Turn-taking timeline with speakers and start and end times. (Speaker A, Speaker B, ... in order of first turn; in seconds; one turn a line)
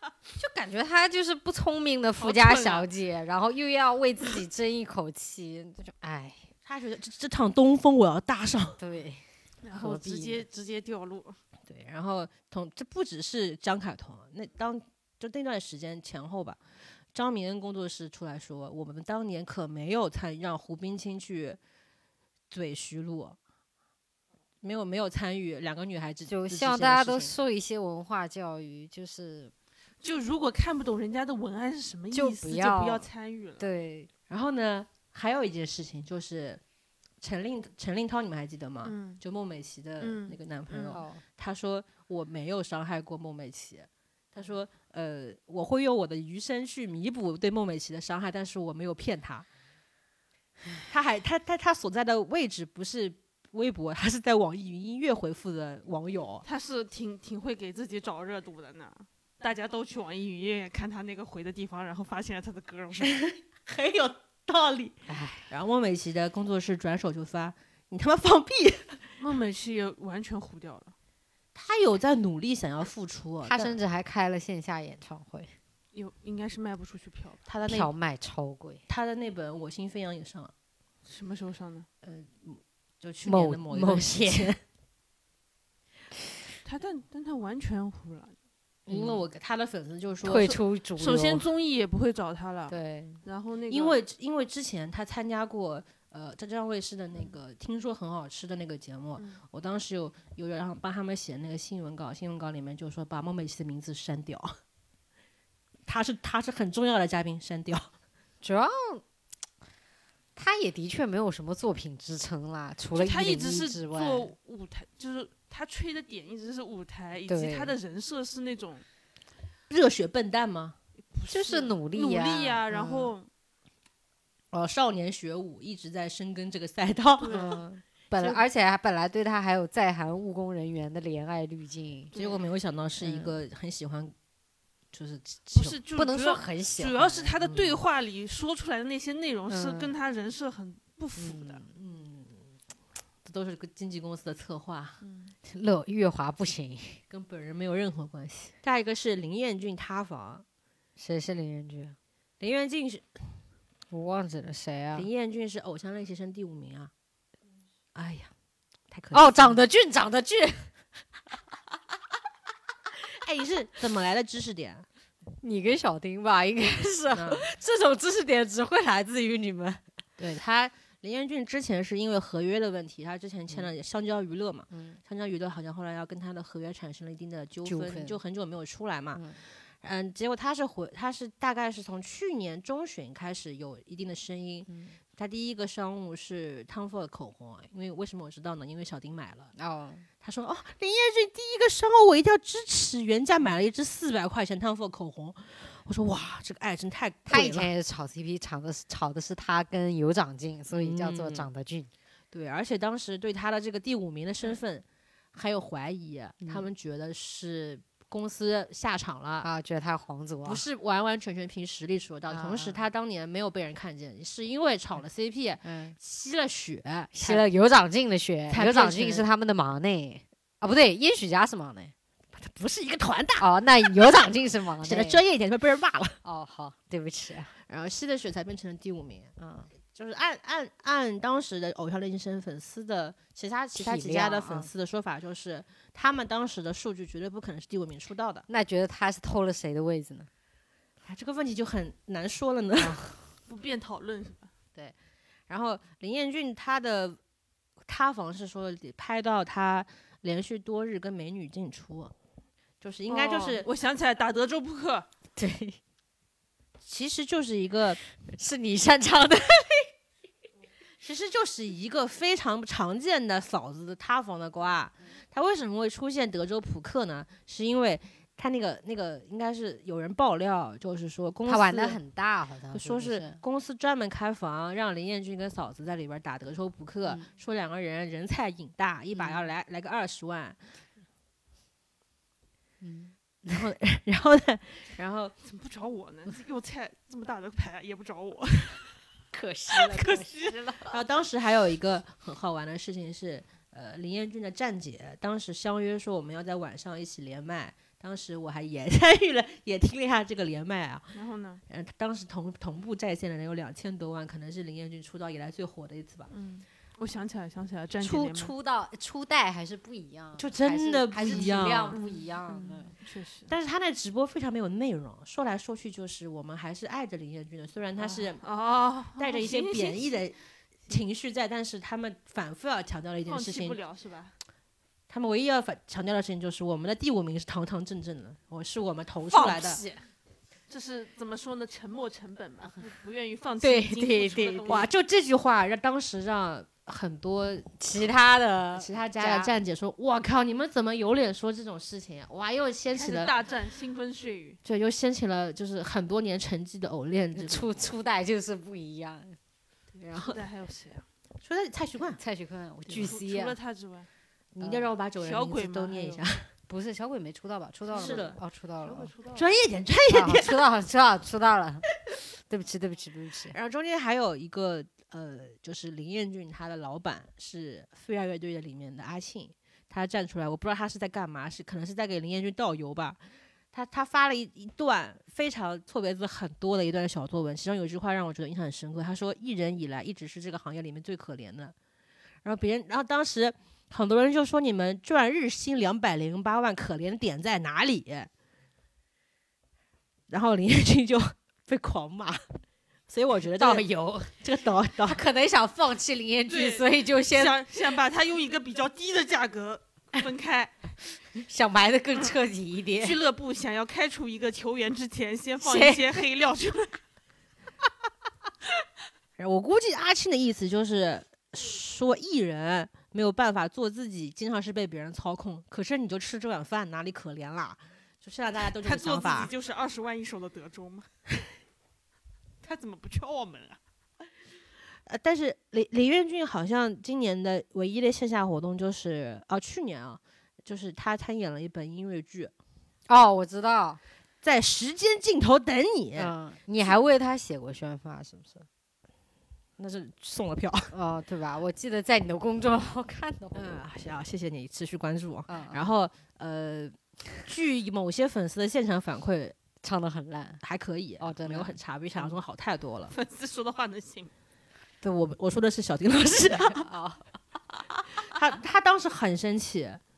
Speaker A: 0.3-6.4
Speaker B: 2.2-2.9
Speaker C: 6.6-8.8
Speaker A: 8.8-10.4
Speaker B: 9.6-11.4
Speaker C: 11.7-16.6
Speaker C: 17.1-21.6
Speaker C: 22.5-23.4
Speaker C: 24.6-27.4
Speaker A: 26.3-29.5
Speaker B: 30.0-33.7
Speaker A: 32.1-33.1
Speaker A: 33.6-34.1
Speaker C: 34.3-36.6
Speaker C: 37.2-49.5
Speaker B: 38.8-39.2
Speaker B: 40.0-41.0
Speaker A: 40.9-41.2
Speaker C: 50.9-56.4
Speaker B: 56.4-63.2
Speaker C: 63.0-69.2
Speaker A: 65.1-65.5
Speaker B: 69.2-70.9
Speaker C: 71.5-73.8
Speaker A: 73.4-75.5
Speaker B: 75.9-77.4
Speaker C: 77.5-77.9
Speaker A: 77.7-78.8
Speaker C: 78.9-80.5
Speaker B: 81.0-81.9
Speaker C: 82.0-84.6
Speaker A: 83.2-84.5
Speaker B: 86.6-88.3
Speaker A: 88.9-89.2
Speaker C: 88.9-90.6
Speaker A: 90.2-91.5
Speaker B: 90.4-94.0
Speaker A: 92.7-93.2
Speaker C: 93.7-104.5
Speaker B: 99.2-99.4
Speaker C: 105.8-107.9
Speaker A: 108.4-109.0
Speaker A: 110.3-114.3
Speaker B: 112.9-118.8
Speaker A: 117.3-117.8
Speaker C: 119.7-120.8
Speaker B: 121.1-123.3
Speaker A: 121.3-123.1
Speaker C: 124.5-127.4
Speaker B: 127.2-127.6
Speaker A: 127.3-132.1
Speaker C: 128.1-128.4
Speaker B: 132.1-132.4
Speaker C: 132.1-134.1
Speaker A: 133.0-133.4
Speaker C: 134.9-135.8
Speaker B: 135.5-141.6
Speaker A: 135.9-137.8
Speaker A: 139.5-139.9
Speaker A: 141.2-141.7
Speaker C: 141.7-142.5
Speaker C: 143.2-145.0
Speaker B: 145.0-145.3
Speaker A: 145.4-147.0
Speaker C: 147.1-150.4
Speaker A: 151.0-151.9
Speaker C: 152.4-153.2
Speaker A: 153.9-155.1
Speaker C: 154.9-156.9
Speaker C: 157.9-158.3
Speaker C: 158.9-159.6
Speaker A: 159.1-160.7
Speaker C: 163.1-164.8
Speaker A: 165.4-169.8
Speaker C: 167.1-167.4
Speaker C: 170.2-179.2
Speaker A: 174.7-175.0
Speaker A: 177.6-178.2
Speaker A: 179.1-179.4
Speaker C: 179.8-189.5
Speaker A: 184.7-185.0
Speaker A: 189.6-190.1
Speaker C: 190.2-197.7
Speaker A: 197.3-201.9
Speaker C: 200.7-201.5
Speaker C: 202.3-209.5
Speaker A: 206.4-206.7
Speaker A: 209.4-210.6
Speaker C: 210.4-217.4
Speaker A: 212.3-212.8
Speaker A: 215.6-215.9
Speaker A: 217.1-221.9
Speaker C: 218.5-219.2
Speaker C: 222.3-224.3
Speaker A: 223.4-225.2
Speaker C: 224.8-226.2
Speaker A: 226.2-227.5
Speaker C: 227.6-229.3
Speaker A: 229.4-229.7
Speaker C: 229.9-238.4
Speaker A: 233.7-234.7
Speaker A: 238.5-240.3
Speaker C: 241.0-243.0
Speaker A: 242.8-243.2
Speaker B: 243.5-244.5
Speaker C: 245.5-247.2
Speaker C: 247.8-252.1
Speaker C: 252.8-253.7
Speaker B: 253.1-255.1
Speaker A: 255.3-255.8
Speaker C: 256.8-258.0
Speaker A: 258.3-259.9
Speaker C: 261.0-272.0
Speaker A: 271.4-273.4
Speaker C: 272.7-280.6
Speaker A: 279.1-279.5
Speaker A: 282.8-283.6
Speaker C: 283.5-285.3
Speaker B: 285.4-288.9
Speaker A: 289.3-290.9
Speaker B: 289.7-290.6
Speaker C: 290.9-301.1
Speaker B: 301.1-301.6
Speaker C: 301.7-306.3
Speaker B: 306.3-308.5
Speaker A: 308.0-312.9
Speaker C: 310.4-312.0
Speaker B: 311.2-313.5
Speaker C: 313.5-318.4
Speaker B: 318.0-320.1
Speaker C: 319.2-320.4
Speaker C: 320.9-323.8
Speaker B: 323.2-324.3
Speaker C: 325.1-329.8
Speaker B: 329.3-329.8
Speaker B: 330.7-334.9
Speaker A: 333.6-334.7
Speaker C: 334.7-338.1
Speaker A: 337.8-339.5
Speaker C: 338.7-343.3
Speaker B: 342.9-344.6
Speaker C: 344.6-347.7
Speaker A: 347.3-349.4
Speaker C: 350.0-350.4
Speaker B: 350.2-351.0
Speaker C: 351.4-352.2
Speaker A: 352.2-353.6
Speaker B: 352.9-354.1
Speaker C: 354.6-356.5
Speaker A: 354.6-354.9
Speaker B: 355.2-356.2
Speaker A: 356.7-359.1
Speaker B: 357.9-358.3
Speaker C: 357.9-358.4
Speaker B: 358.8-359.5
Speaker C: 359.3-360.6
Speaker A: 360.1-361.9
Speaker A: 362.5-363.6
Speaker C: 363.5-373.2
Speaker C: 373.7-381.7
Speaker C: 382.4-388.3
Speaker C: 390.3-392.4
Speaker C: 393.1-395.2
Speaker A: 393.6-394.3
Speaker A: 395.1-397.6
Speaker B: 396.5-400.7
Speaker A: 401.4-403.2
Speaker B: 403.0-407.0
Speaker A: 405.6-406.1
Speaker C: 409.4-419.5
Speaker B: 418.8-421.1
Speaker B: 422.6-423.8
Speaker C: 425.1-432.5
Speaker A: 433.1-434.0
Speaker C: 434.4-436.9
Speaker A: 436.1-438.6
Speaker C: 439.8-440.9
Speaker A: 440.9-443.8
Speaker C: 443.5-446.9
Speaker A: 445.5-445.9
Speaker C: 447.4-449.6
Speaker A: 449.8-450.6
Speaker C: 450.6-453.1
Speaker A: 451.2-452.3
Speaker B: 453.1-454.3
Speaker C: 455.0-456.8
Speaker A: 456.7-457.2
Speaker C: 458.2-460.0